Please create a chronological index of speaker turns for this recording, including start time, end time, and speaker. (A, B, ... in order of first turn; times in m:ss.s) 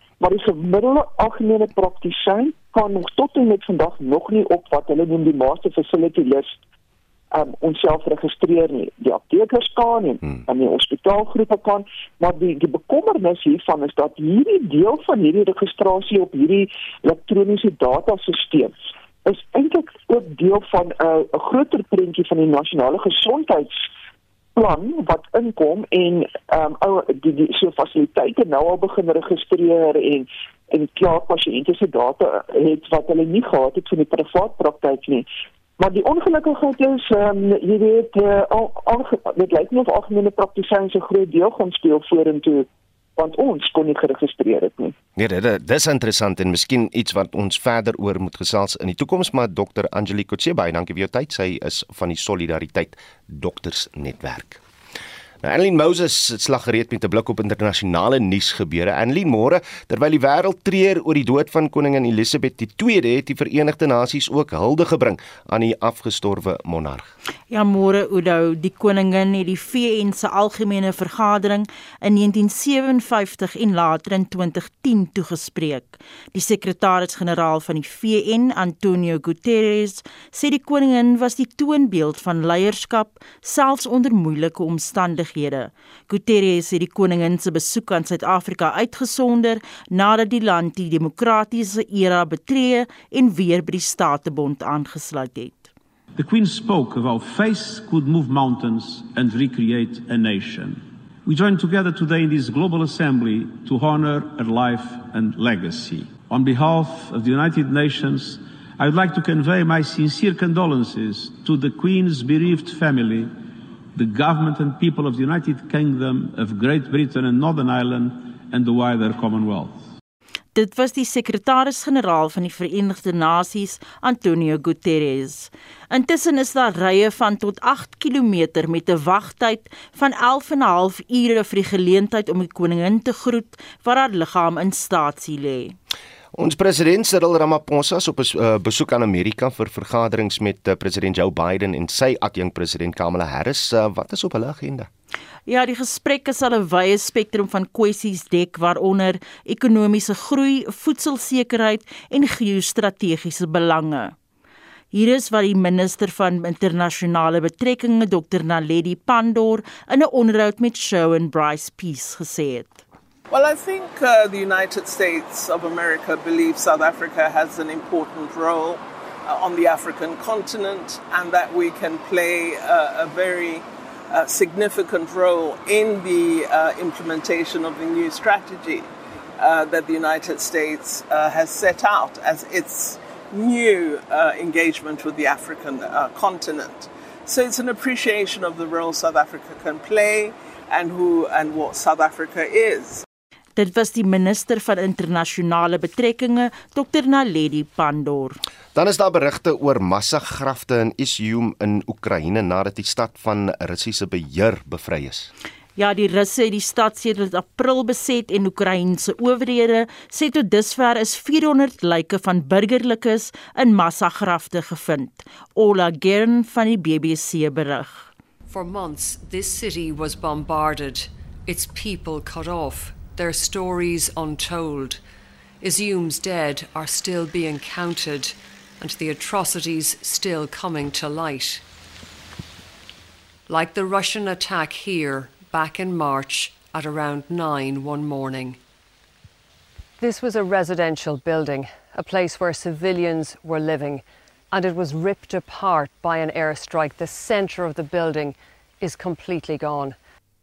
0:00.2-0:06.6 A
0:07.3-0:18.7 A
0:19.2-0:23.9 A
0:24.6-0:35.3 A
0:35.8-0:44.9 A
0:45.2-0:54.6 B
0:55.4-1:07.1 B
1:07.5-1:35.7 C
1:36.2-1:53.3 D
1:53.9-1:59.8 D
2:00.5-2:15.7 C
2:16.3-2:24.9 B
2:25.4-2:34.1 C
2:34.9-2:42.8 C
2:43.3-3:13.0 E
3:13.6-3:18.4 C
3:18.7-3:25.3 B
3:25.8-3:38.1 C
3:38.5-3:45.0 F
3:45.6-3:51.6 F
3:53.5-3:58.6 F
4:00.0-4:10.0 F